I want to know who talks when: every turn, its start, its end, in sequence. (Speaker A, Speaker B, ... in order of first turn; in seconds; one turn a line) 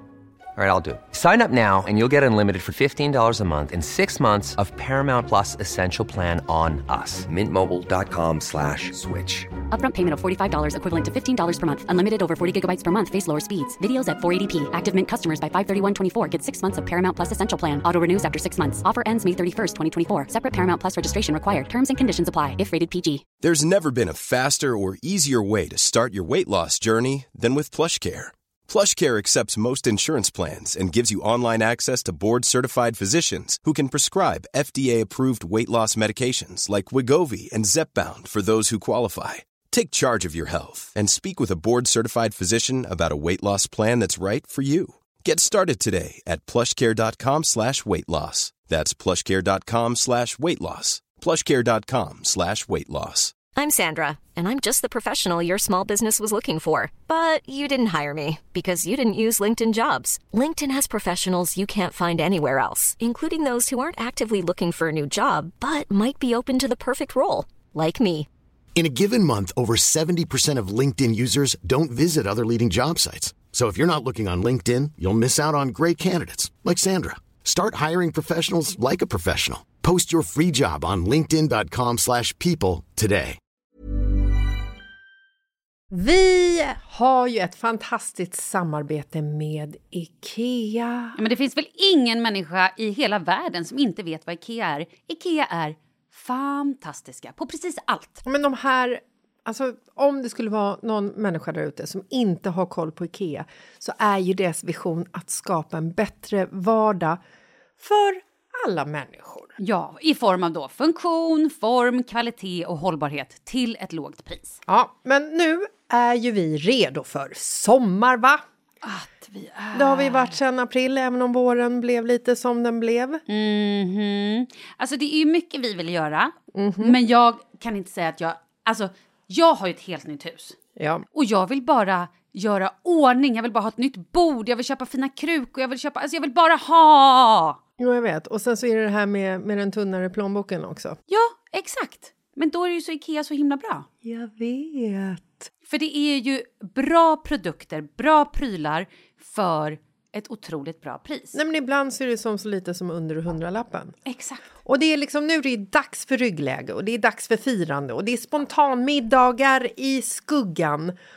Speaker A: 0.6-9.5
Speaker B: 9.7-23.2
Speaker C: 23.4-53.4
Speaker D: 53.5-68.3
Speaker E: 68.7-83.4
Speaker F: 85.9-91.2
Speaker G: 91.2-98.2
Speaker F: 98.2-107.2
Speaker F: 107.8-109.5
Speaker G: 109.6-114.6
Speaker F: 114.7-118.4
Speaker G: 118.8-120.4
Speaker F: 119.7-123.2
Speaker G: 123.3-130.6
Speaker F: 126.5-127.0
Speaker F: 130.8-131.0
Speaker G: 131.1-137.6
Speaker F: 137.8-141.0
Speaker G: 141.1-143.9
Speaker F: 144.0-145.5
Speaker G: 145.7-151.4
Speaker F: 151.3-153.9
Speaker G: 154.1-154.4
Speaker F: 154.7-160.9